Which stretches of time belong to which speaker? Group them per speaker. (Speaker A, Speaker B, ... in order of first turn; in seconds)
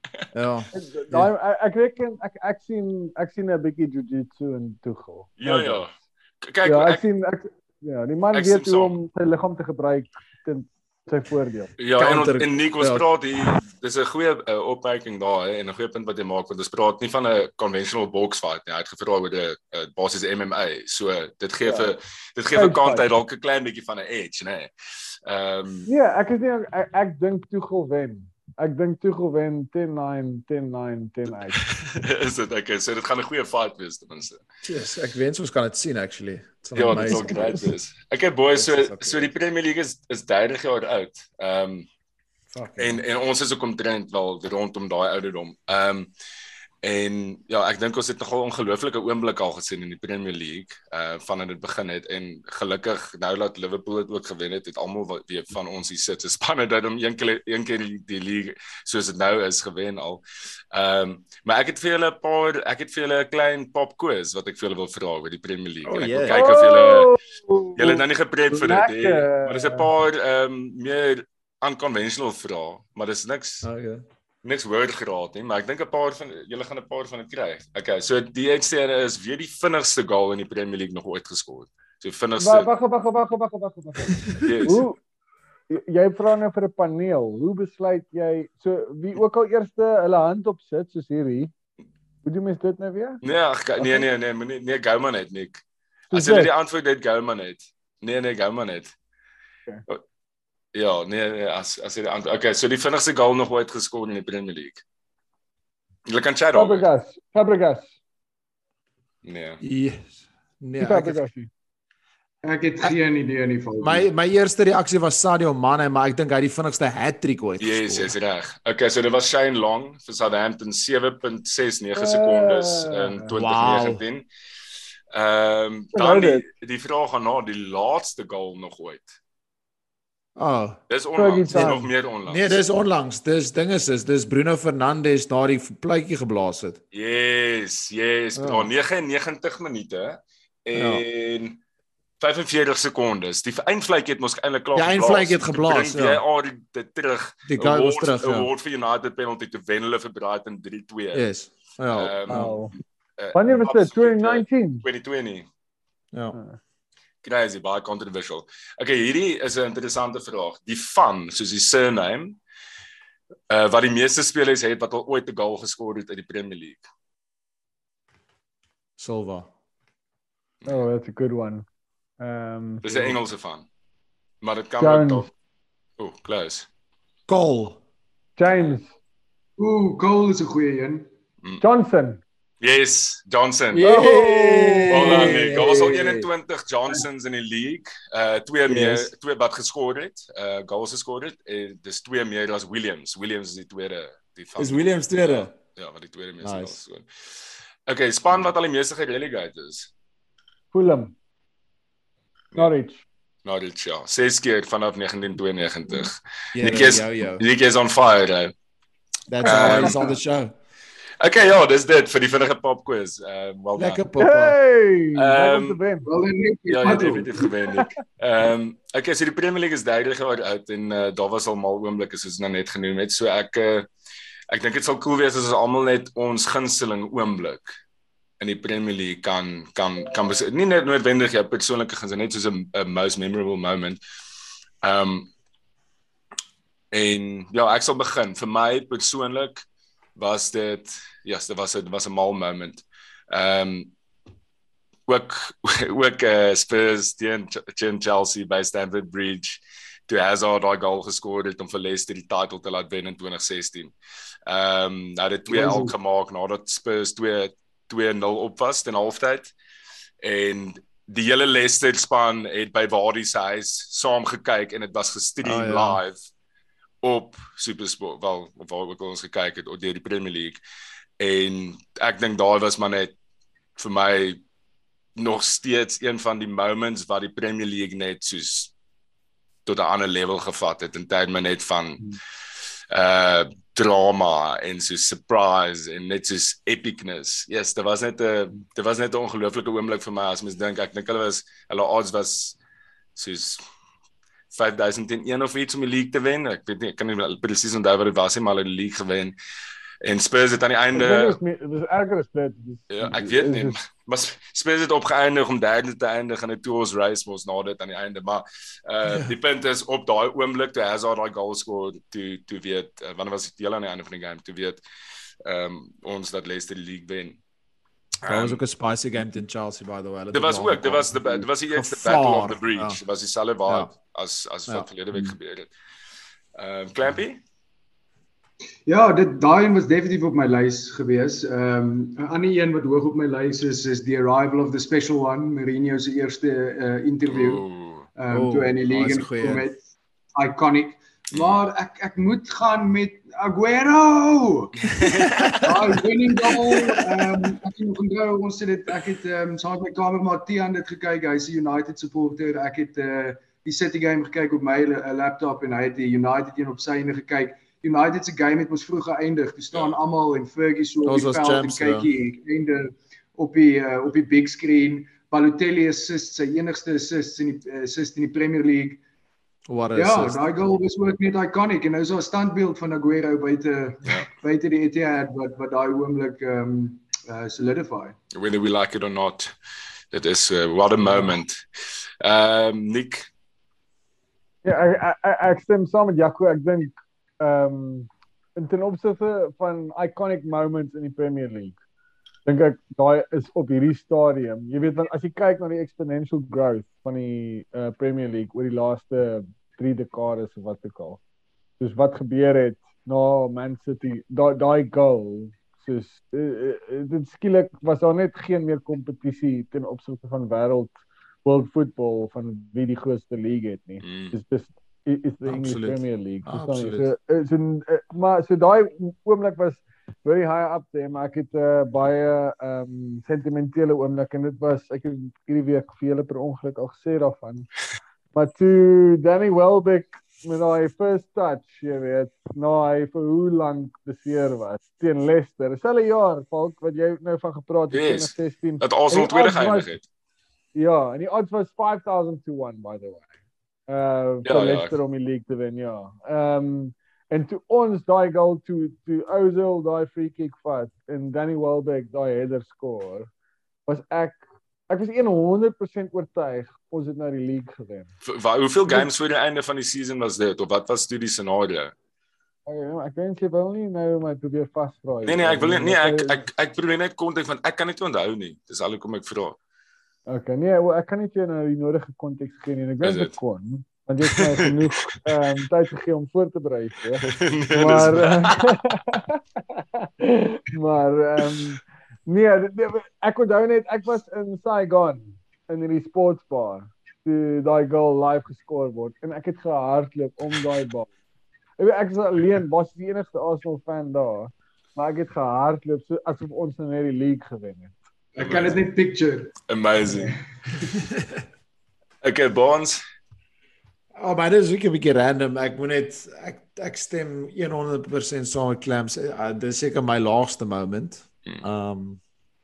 Speaker A: 0.3-1.3, 12.0-13.0, 34.6-37.7, 38.6-39.3, 42.5-43.0, 65.8-66.4, 73.6-74.0, 109.6-111.2, 113.8-118.1, 123.3-124.0, 130.3-130.8, 131.5-136.8, 138.3-138.7, 140.7-141.0, 144.7-146.2, 147.5-148.5, 151.1-152.6, 169.0-169.5, 177.3-177.8, 183.7-186.3, 188.7-189.1, 194.6-195.5, 196.4-196.7, 206.5-207.4, 209.3-210.5, 213.8-214.6, 265.4-266.0, 318.2-323.0, 323.6-323.9, 324.7-325.3, 338.3-339.7, 345.0-347.4, 361.0-362.1, 369.7-370.4, 415.4-417.1, 500.9-501.4, 504.1-512.2
Speaker B: 0.7-5.9, 6.6-11.7, 21.6-21.9, 22.5-23.0, 25.9-31.6, 36.9-37.3, 66.3-69.8, 82.4-85.0, 85.7-91.5, 92.2-93.2, 93.8-94.0, 96.1-96.5, 106.5-107.9, 110.8-111.5, 121.9-123.3, 125.9-126.5, 131.2-131.9, 152.3-152.7, 153.3-154.8, 170.7-171.6, 172.2-173.2, 174.8-175.3, 178.4-178.9, 181.6-182.2, 183.8-185.5, 200.7-201.1, 202.5-203.0, 209.4-210.1, 214.2-216.1, 300.9-303.8, 384.6-391.8, 392.4-401.2, 401.8-427.7, 428.3-439.9, 440.7-443.3, 443.9-453.3, 453.9-458.1, 462.7-466.4, 470.3-491.1, 491.8-497.9
Speaker C: 5.4-7.0, 8.3-8.9, 11.8-24.7, 25.2-25.9, 31.5-34.4, 36.7-41.9, 42.8-46.1, 46.8-67.1, 67.8-73.7, 74.4-82.7, 84.4-84.8, 93.2-98.9, 100.7-104.8, 106.0-106.8, 109.2-109.6, 117.6-124.2, 125.1-129.1, 130.9-132.6, 136.9-141.6, 142.2-151.2, 151.9-152.6, 153.2-155.5, 157.2-162.4, 163.5-166.8, 172.8-173.7, 174.4-175.3, 176.0-176.7, 182.6-183.9, 184.9-199.9, 203.4-208.5, 209.4-210.0, 211.2-214.0, 215.1-215.8, 216.7-223.9, 224.5-227.7, 228.4-234.0, 234.8-235.3, 236.9-239.6, 240.2-243.9, 245.1-253.9, 254.4-259.5, 260.2-266.2, 267.0-270.6, 271.2-273.1, 273.8-274.4, 275.1-278.7, 279.6-282.2, 282.9-292.6, 293.1-293.6, 294.5-299.3, 300.0-301.4, 302.9-314.8, 315.4-317.4, 318.2-318.6, 320.3-325.7, 326.6-327.4, 337.3-338.1, 341.3-341.6, 345.0-345.2, 359.7-360.0, 378.3-379.5, 380.1-381.6, 382.2-383.3, 414.0-414.3, 437.9-440.0, 444.4-444.9, 458.2-461.9, 465.2-469.6, 473.0-473.3, 474.3-475.0, 477.2-478.7, 498.4-498.8, 499.7-500.4, 502.2-503.0
Speaker D: 112.4-114.1, 179.6-181.1, 216.0-217.5, 255.5-255.9, 328.9-337.6, 338.2-339.8, 340.3-345.0, 345.6-369.0, 369.9-378.1, 498.3-500.9